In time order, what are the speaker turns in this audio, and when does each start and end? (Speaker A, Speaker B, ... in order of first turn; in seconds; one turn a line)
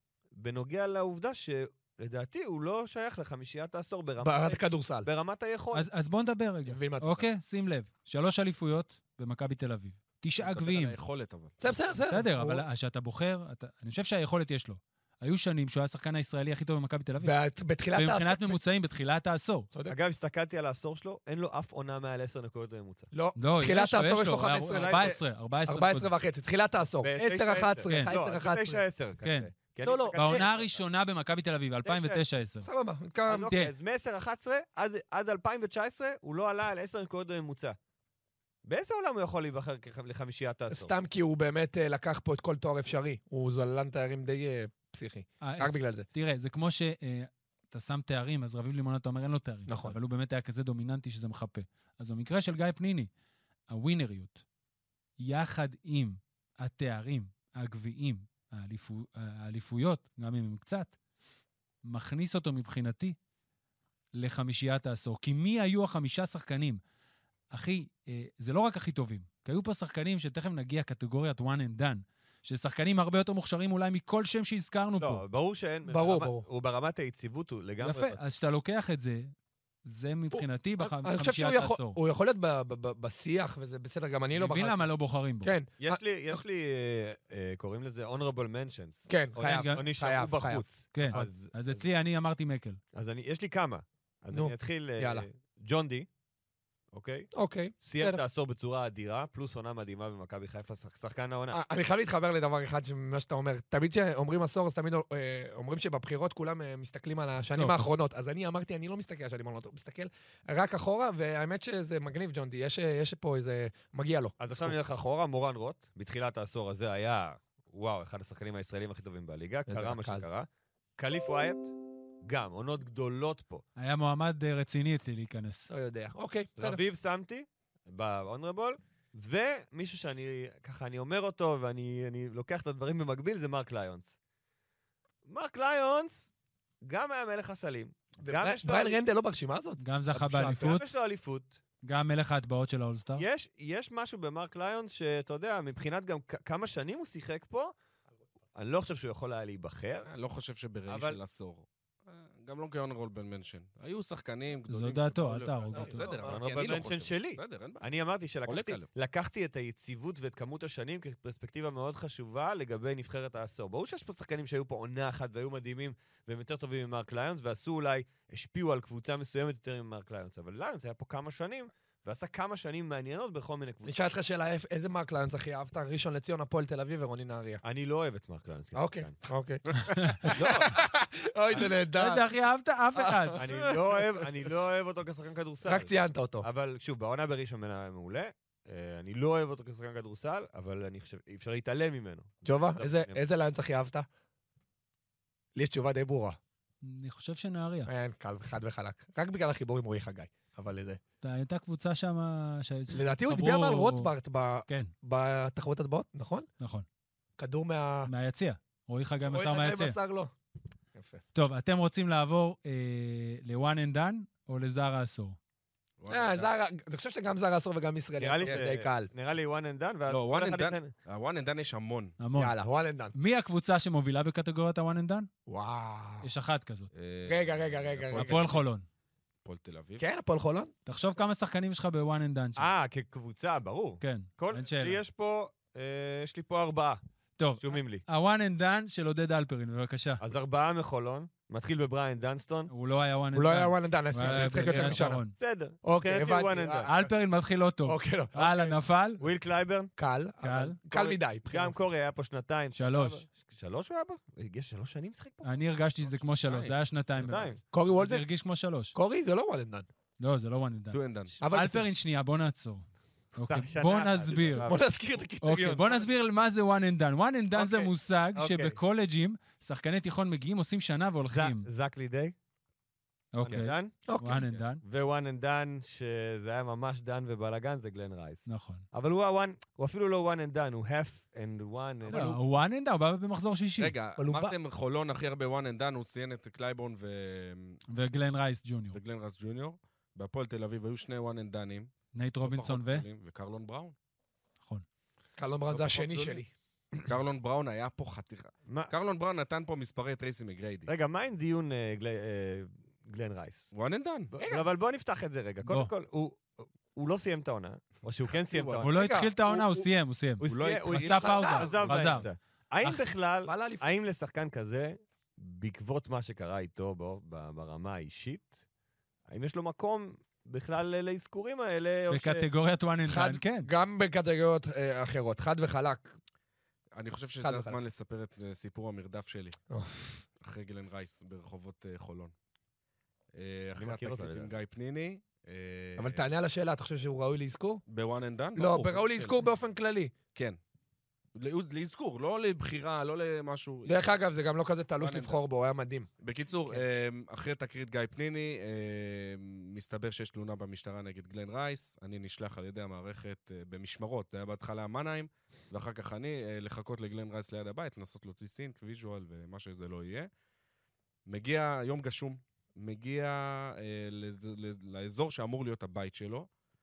Speaker A: 0.3-5.9
Speaker B: 4.2-5.1
Speaker C: 5.7-11.0
Speaker B: 6.7-7.3
Speaker D: 10.4-11.6
Speaker B: 11.6-12.6
Speaker C: 12.1-17.3
Speaker B: 17.2-18.6
Speaker C: 17.9-19.7
Speaker A: 19.9-23.1
Speaker B: 23.1-28.8
Speaker C: 23.4-26.1
Speaker A: 24.7-25.2
Speaker A: 27.0-30.8
Speaker C: 27.9-28.1
Speaker C: 29.2-29.5
Speaker B: 29.8-30.4
Speaker C: 30.1-32.7
Speaker A: 31.8-32.2
Speaker B: 32.6-33.5
Speaker A: 33.3-37.8
Speaker C: 33.5-33.7
Speaker A: 38.6-40.9
Speaker B: 40.7-46.1
Speaker C: 45.4-53.1
Speaker B: 49.7-50.0
Speaker C: 53.7-54.4
Speaker C: 55.2-60.9
Speaker C: 61.9-63.2
Speaker C: 64.2-66.8
Speaker C: 67.5-75.2
Speaker A: 75.0-78.2
Speaker B: 75.9-76.5
Speaker C: 77.8-79.3
Speaker C: 79.9-82.0
Speaker B: 80.3-84.9
Speaker C: 84.3-85.5
Speaker B: 85.4-86.4
Speaker A: 85.8-91.8
Speaker B: 89.1-91.3
Speaker C: 89.4-89.8
Speaker C: 90.9-92.8
Speaker A: 92.9-96.1
Speaker B: 94.3-95.3
Speaker A: 96.9-101.6
Speaker B: 97.3-98.2
Speaker B: 101.5-114.8
Speaker C: 107.5-107.8
Speaker A: 114.4-123.6
Speaker B: 119.7-120.3
Speaker C: 123.8-125.7
Speaker B: 125.7-126.8
Speaker A: 126.6-134.2
Speaker A: 135.2-136.3
Speaker A: 136.8-139.0
Speaker B: 138.2-140.8
Speaker C: 139.8-140.9
Speaker A: 140.4-141.6
Speaker C: 141.8-143.2
Speaker A: 143.2-147.7
Speaker A: 148.6-150.1
Speaker D: 150.1-157.8
Speaker A: 150.9-151.2
Speaker C: 154.7-156.1
Speaker B: 155.8-156.4
Speaker A: 156.2-174.0
Speaker D: 158.5-158.9
Speaker B: 173.9-177.6
Speaker A: 177.6-179.2
Speaker B: 178.8-182.3
Speaker A: 180.2-180.8
Speaker C: 181.9-183.4
Speaker B: 182.9-184.6
Speaker A: 183.3-193.2
Speaker B: 185.7-186.5
Speaker B: 192.4-194.1
Speaker B: 195.6-196.4
Speaker C: 196.8-197.9
Speaker B: 197.9-201.0
Speaker C: 201.2-204.1
Speaker B: 202.9-206.5
Speaker C: 204.7-204.9
Speaker C: 206.6-206.9
Speaker B: 207.4-208.1
Speaker C: 208.1-210.0
Speaker B: 209.2-210.3
Speaker B: 210.9-211.2
Speaker C: 211.3-215.4
Speaker D: 216.0-216.5
Speaker B: 216.1-219.1
Speaker A: 218.2-220.9
Speaker D: 220.1-222.2
Speaker C: 222.2-222.6
Speaker B: 222.4-223.1
Speaker C: 223.1-225.3
Speaker B: 225.5-226.3
Speaker C: 226.2-226.9
Speaker D: 226.9-228.6
Speaker B: 227.3-228.5
Speaker C: 228.2-228.8
Speaker D: 229.4-230.0
Speaker B: 230.0-230.7
Speaker C: 230.9-232.7
Speaker A: 232.6-237.0
Speaker C: 234.0-235.0
Speaker C: 237.4-240.2
Speaker A: 237.6-238.0
Speaker A: 240.2-242.7
Speaker C: 242.7-245.4
Speaker B: 243.3-245.2
Speaker D: 244.4-244.8
Speaker A: 245.2-246.9
Speaker B: 245.8-247.1
Speaker C: 246.9-249.2
Speaker B: 247.8-248.4
Speaker A: 248.4-249.9
Speaker B: 250.0-251.8
Speaker C: 250.4-250.8
Speaker A: 250.9-255.5
Speaker C: 252.8-253.2
Speaker C: 255.4-259.0
Speaker D: 256.4-256.8
Speaker A: 257.2-257.6
Speaker B: 257.7-258.3
Speaker B: 258.9-259.9
Speaker C: 260.2-264.7
Speaker D: 260.9-261.4
Speaker B: 261.4-261.9
Speaker A: 263.4-264.9
Speaker B: 264.7-266.1
Speaker C: 265.4-271.7
Speaker A: 267.5-268.8
Speaker A: 271.3-272.4
Speaker C: 273.3-274.8
Speaker A: 273.4-274.0
Speaker B: 274.1-274.4
Speaker A: 274.8-282.4
Speaker C: 278.5-278.9
Speaker C: 282.1-283.9
Speaker D: 283.8-287.8
Speaker B: 284.2-284.6
Speaker C: 287.9-289.0
Speaker D: 288.9-291.9
Speaker C: 292.1-293.1
Speaker D: 292.4-293.9
Speaker B: 295.4-296.5
Speaker D: 295.7-296.4
Speaker D: 297.0-300.9
Speaker A: 298.7-298.9
Speaker A: 300.9-303.7
Speaker D: 303.7-304.3
Speaker A: 304.3-309.0
Speaker B: 304.4-304.7
Speaker C: 305.7-305.9
Speaker D: 308.4-308.8
Speaker C: 308.8-312.3
Speaker B: 308.9-309.9
Speaker A: 310.4-318.6
Speaker D: 310.4-312.0
Speaker B: 311.2-311.9
Speaker B: 313.4-313.8
Speaker A: 319.3-322.5
Speaker C: 322.1-323.7
Speaker B: 323.1-326.1
Speaker D: 327.0-329.6
Speaker B: 327.4-327.8
Speaker B: 329.7-330.2
Speaker D: 330.4-332.3
Speaker D: 333.4-336.2
Speaker A: 333.8-334.5
Speaker B: 336.0-337.8
Speaker D: 337.9-339.4
Speaker B: 338.6-340.1
Speaker D: 341.4-344.0
Speaker B: 343.9-346.1
Speaker D: 345.0-345.4
Speaker D: 346.2-360.3
Speaker D: 361.3-366.5